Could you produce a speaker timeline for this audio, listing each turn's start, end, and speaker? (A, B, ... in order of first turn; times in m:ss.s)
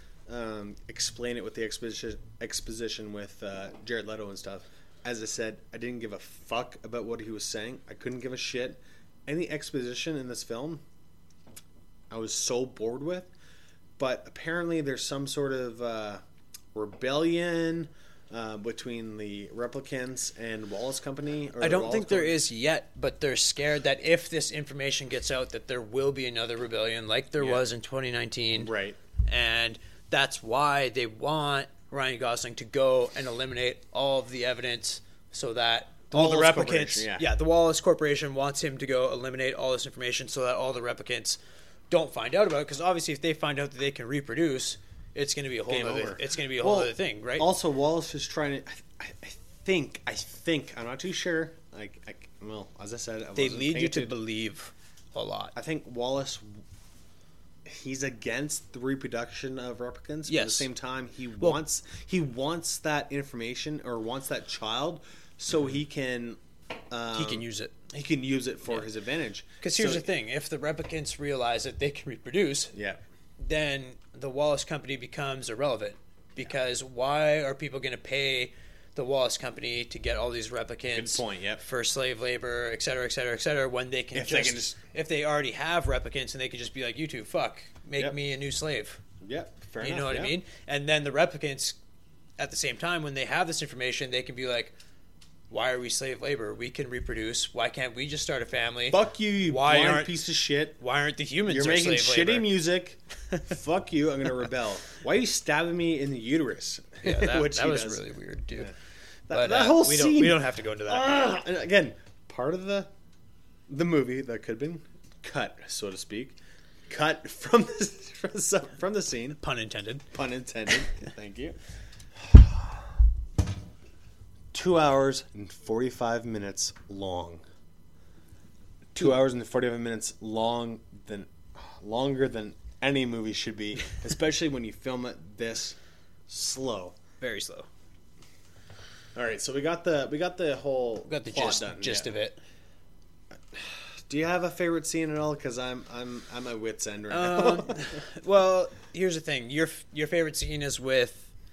0:00.3-0:10.8 A
0:12.1-0:13.3 A
0:14.0-0:16.2 A
0:16.7-0:22.4 A
0:21.6-0:28.7 B
0:27.4-0:27.6 A
0:28.6-0:29.0 A
0:29.2-0:47.5 B
0:36.1-0:37.2 A
0:45.7-0:54.1 A
0:53.4-0:55.5 B
0:55.5-0:56.6 A
0:57.6-1:06.4 A
1:00.3-1:00.7 B
1:06.9-1:10.1 A
1:07.1-1:07.7 B
1:09.6-1:12.7 B
1:12.7-1:13.0 A
1:13.4-1:29.0 B
1:20.9-1:21.6 A
1:24.1-1:24.8 A
1:29.2-1:30.4 A
1:29.8-1:31.8 B
1:32.4-1:34.7 B
1:35.5-1:40.1 B
1:38.9-1:40.8 A
1:40.8-1:42.5 B
1:41.5-1:48.0 A
1:47.0-1:48.7 B
1:49.3-1:52.9 A
1:49.3-1:51.2 B
1:53.7-1:56.4 A
1:56.9-1:59.4 A
1:59.4-2:00.0 B
2:00.1-2:01.6 A
2:02.3-2:02.6 A
2:04.5-2:07.4 A
2:08.9-2:15.8 A
2:16.3-2:17.0 A
2:17.2-2:17.7 B
2:19.2-2:22.1 A
2:21.1-2:22.4 B
2:23.5-2:28.0 A
2:27.1-2:31.3 B